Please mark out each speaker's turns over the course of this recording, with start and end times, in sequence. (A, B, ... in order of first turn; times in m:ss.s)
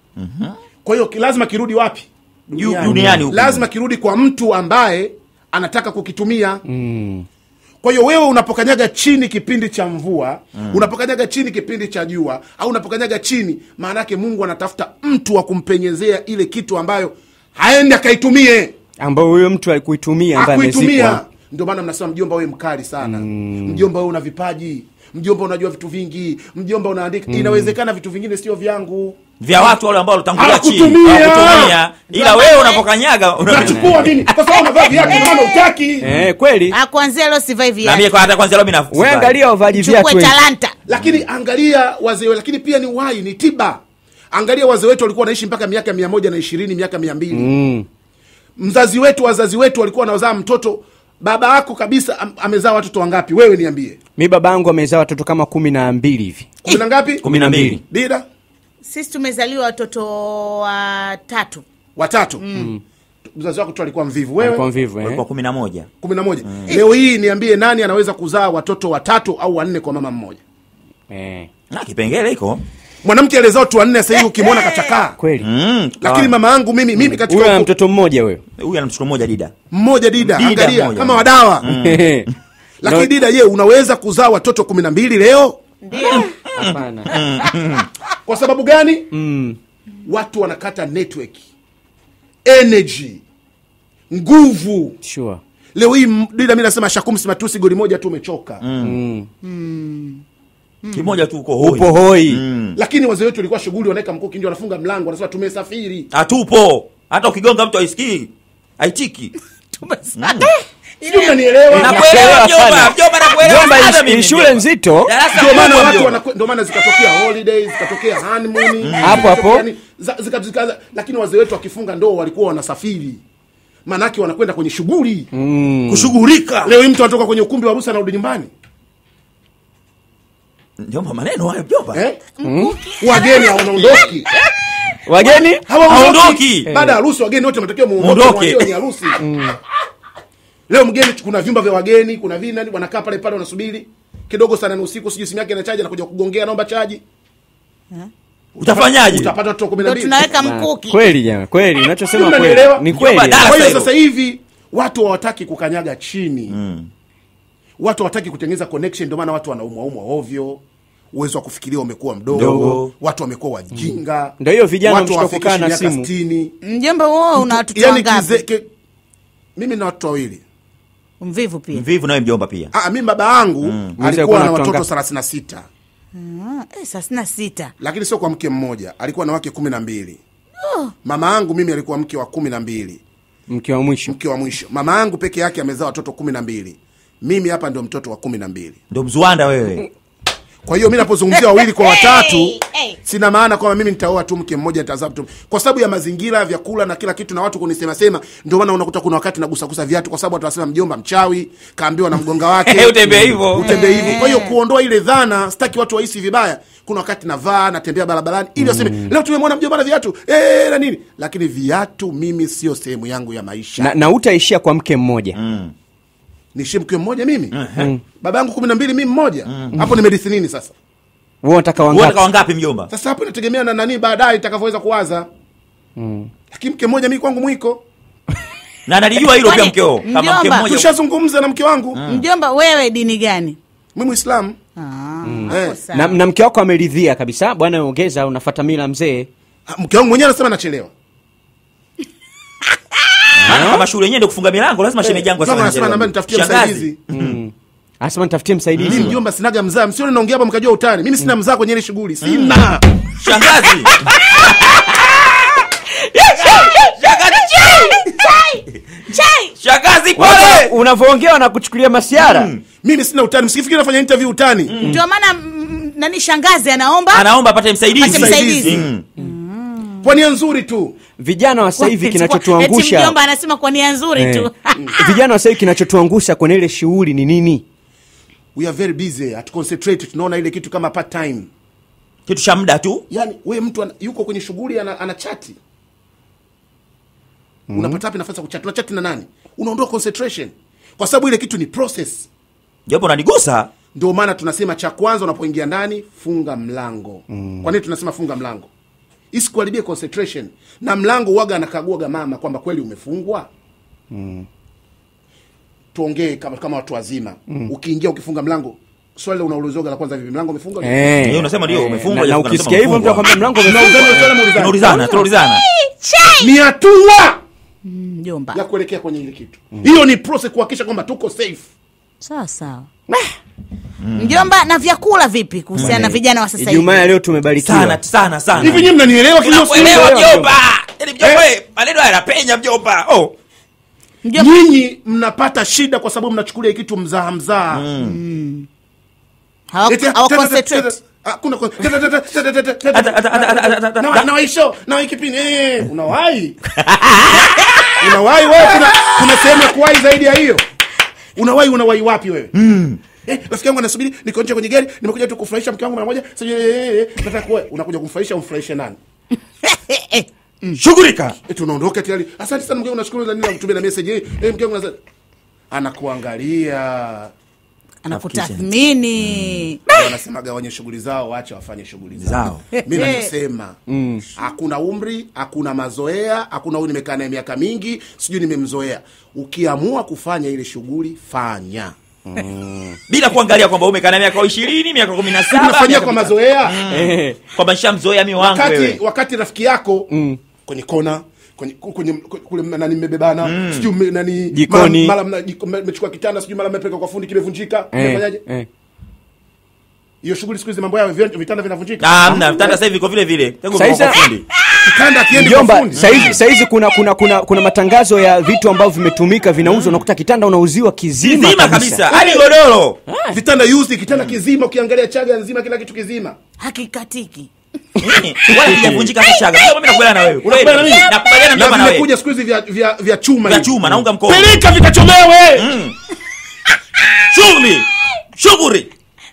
0:00.2-0:00.6 A
0:00.8-0:06.6 B
0:02.6-0:03.7 A
0:02.8-0:03.2 C
0:06.7-0:07.3 C
0:07.8-0:18.7 B
0:10.6-0:10.8 A
0:19.0-0:21.2 C
0:20.4-0:29.2 B
0:23.0-0:23.8 C
0:27.3-0:27.8 C
0:29.4-0:34.3 A
0:30.4-0:31.8 B
0:32.1-0:32.9 D
0:33.4-0:36.1 B
0:33.5-0:33.9 C
0:34.6-0:35.6 D
0:36.0-0:36.8 C
0:36.7-0:38.1 D
0:37.8-0:39.4 A
0:38.9-0:40.4 C
0:39.7-0:40.8 D
0:40.9-0:43.8 B
0:44.3-0:47.5 B
0:47.3-0:47.9 C
0:48.6-0:54.0 B
0:54.2-0:56.5 C
0:56.6-0:57.3 B
0:57.2-0:57.8 A
0:57.2-0:57.8 C
0:57.8-0:58.2 B
0:58.8-1:01.6 D
1:02.0-1:02.4 B
1:02.4-1:02.7 D
1:02.6-1:02.8 C
1:03.3-1:04.7 B
1:04.4-1:05.2 C
1:05.0-1:05.9 A
1:06.0-1:10.4 B
1:06.4-1:06.7 A
1:11.1-1:11.5 C
1:11.7-1:12.6 A
1:13.0-1:15.2 B
1:14.2-1:14.9 D
1:15.2-1:15.5 C
1:15.4-1:16.2 A
1:16.0-1:17.7 B
1:16.1-1:16.3 C
1:17.0-1:18.4 C
1:18.6-1:19.5 A
1:19.7-1:21.7 B
1:20.2-1:22.1 A
1:21.7-1:22.3 C
1:22.8-1:25.6 B
1:22.8-1:23.1 C
1:25.8-1:26.3 D
1:26.0-1:27.9 A
1:26.2-1:27.2 C
1:28.2-1:29.1 B
1:29.1-1:29.6 C
1:30.0-1:31.5 B
1:32.4-1:33.2 B
1:34.1-1:35.0 B
1:35.0-1:35.4 C
1:35.8-1:38.6 B
1:38.6-1:39.0 A
1:38.8-1:39.3 C
1:39.4-1:40.2 D
1:40.8-1:41.1 D
1:40.9-1:42.8 A
1:41.6-1:42.4 C
1:42.8-1:46.1 B
1:46.1-1:49.3 A
1:49.8-1:51.5 D
1:50.2-1:50.5 A
1:51.0-1:52.2 B
1:51.7-1:55.1 C
1:51.8-1:56.2 A
1:55.3-2:03.2 B
1:58.8-1:59.3 A
1:59.0-1:59.6 C
2:03.8-2:05.3 B
2:05.3-2:06.1 C
2:05.9-2:06.7 A
2:06.6-2:08.5 B
2:10.8-2:12.0 A
2:11.9-2:12.2 B
2:12.4-2:14.2 D
2:12.4-2:12.8 C
2:13.0-2:14.3 B
2:15.0-2:15.6 C
2:15.6-2:19.2 B
2:15.8-2:16.7 A
2:16.7-2:17.0 C
2:18.0-2:18.7 A
2:19.2-2:19.6 C
2:20.7-2:27.0 B
2:28.6-2:30.3 B
2:28.6-2:29.3 A
2:29.8-2:31.0 D
2:30.4-2:33.6 C
2:32.1-2:36.6 B
2:32.9-2:33.9 A
2:36.5-2:36.9 A
2:37.8-2:40.6 B
2:41.1-2:46.5 B
2:42.3-2:42.9 A
2:42.4-2:42.8 C
2:43.8-2:46.1 C
2:46.6-2:48.4 D
2:47.4-2:48.7 B
2:49.6-2:50.4 B
2:51.2-2:51.8 D
2:51.7-2:52.7 A
2:52.7-2:55.7 B
2:53.6-2:53.9 A
2:54.0-2:54.8 C
2:56.2-2:57.7 D
2:57.8-3:00.2 B
3:00.6-3:00.9 D
3:01.0-3:03.0 B
3:03.5-3:04.2 C
3:04.1-3:08.8 B
3:08.9-3:09.9 A
3:10.6-3:34.0 B
3:11.8-3:13.0 D
3:22.6-3:23.7 A
3:23.7-3:24.5 D
3:28.6-3:29.1 C
3:33.8-3:35.4 C
3:35.4-3:35.7 A
3:36.5-3:37.6 B
3:37.5-3:37.9 A
3:38.2-3:40.7 B
3:39.5-3:39.8 A
3:41.4-3:42.2 C
3:41.9-3:42.9 A
3:42.9-3:45.3 B
3:46.0-3:46.3 C
3:46.5-3:47.8 B
3:48.9-3:50.9 A
3:49.4-3:50.7 D
3:50.6-3:52.0 B
3:52.0-3:52.2 A
3:52.1-3:53.6 D
3:54.0-3:54.6 B
3:54.8-3:56.2 D
3:55.2-3:59.3 C
3:55.5-3:55.8 B
3:59.7-4:00.9 B
4:03.4-4:07.4 A
4:03.4-4:03.8 C
4:05.0-4:07.0 B
4:07.1-4:09.2 C
4:08.8-4:09.1 A
4:08.8-4:12.8 B
4:12.3-4:12.6 A
4:13.2-4:14.0 A
4:14.0-4:16.9 C
4:16.4-4:18.0 A
4:17.6-4:19.5 D
4:19.6-4:20.7 A
4:20.2-4:22.5 C
4:22.2-4:22.6 A
4:22.8-4:24.8 B
4:24.7-4:25.0 A
4:24.8-4:27.3 D
4:27.1-4:29.0 A
4:28.0-4:30.1 D
4:28.0-4:28.9 B
4:30.0-4:31.0 B
4:31.2-4:33.2 C
4:31.8-4:35.2 D
4:34.2-4:37.6 C
4:38.6-4:41.5 B
4:42.3-4:43.0 A
4:43.1-4:45.6 B
4:47.7-4:48.0 C
4:47.7-4:52.3 B
4:52.9-4:53.7 A
4:53.9-4:58.7 B
4:57.3-4:57.7 C
4:59.3-5:03.5 B
5:04.1-5:04.5 C
5:05.9-5:11.1 B
5:10.8-5:14.4 C
5:11.2-5:13.3 A
5:13.6-5:14.9 B
5:14.6-5:15.6 A
5:14.8-5:16.5 D
5:16.4-5:17.4 B
5:17.8-5:18.6 D
5:18.5-5:21.7 B
5:22.2-5:22.9 D
5:24.0-5:24.5 A
5:24.2-5:27.0 D
5:25.8-5:26.1 A
5:25.8-5:28.0 C
5:27.6-5:33.3 A
5:28.6-5:30.4 B
5:29.8-5:30.6 C
5:34.3-5:37.8 B
5:37.7-5:38.2 A
5:38.0-5:38.7 D
5:39.7-5:40.9 D
5:39.9-5:46.6 B
5:42.9-5:44.3 A
5:46.8-5:48.0 A
5:48.0-5:50.6 B
5:48.7-5:49.4 A
5:51.4-5:52.5 B
5:52.6-5:53.0 A
5:53.2-5:59.0 B
5:59.6-6:00.8 D
6:00.8-6:01.4 A
6:01.4-6:05.0 B
6:05.7-6:07.3 B
6:08.0-6:10.1 D
6:08.1-6:09.7 A
6:09.9-6:13.8 B
6:12.2-6:12.7 A
6:12.9-6:13.3 D
6:13.9-6:14.2 C
6:14.4-6:21.9 B
6:22.3-6:23.0 C
6:23.1-6:29.0 A
6:25.5-6:26.8 B
6:26.9-6:27.4 C
6:28.4-6:30.1 B
6:30.1-6:30.4 C
6:30.7-6:38.4 B
6:33.4-6:33.9 A
6:34.5-6:35.2 C
6:37.9-6:38.7 C
6:40.2-6:42.8 B
6:42.0-6:44.4 A
6:43.7-6:44.3 C
6:44.8-6:46.4 B
6:45.3-6:52.1 C
6:46.0-6:46.4 A
6:49.6-6:50.0 A
6:51.2-6:53.0 A
6:52.1-6:52.4 B
6:53.1-6:53.4 C
6:53.3-6:56.4 B
6:56.6-6:57.5 D
6:58.0-7:02.1 A
6:58.5-6:59.1 C
7:00.4-7:05.7 B
7:03.4-7:04.6 A
7:05.5-7:06.0 A
7:07.2-7:08.9 A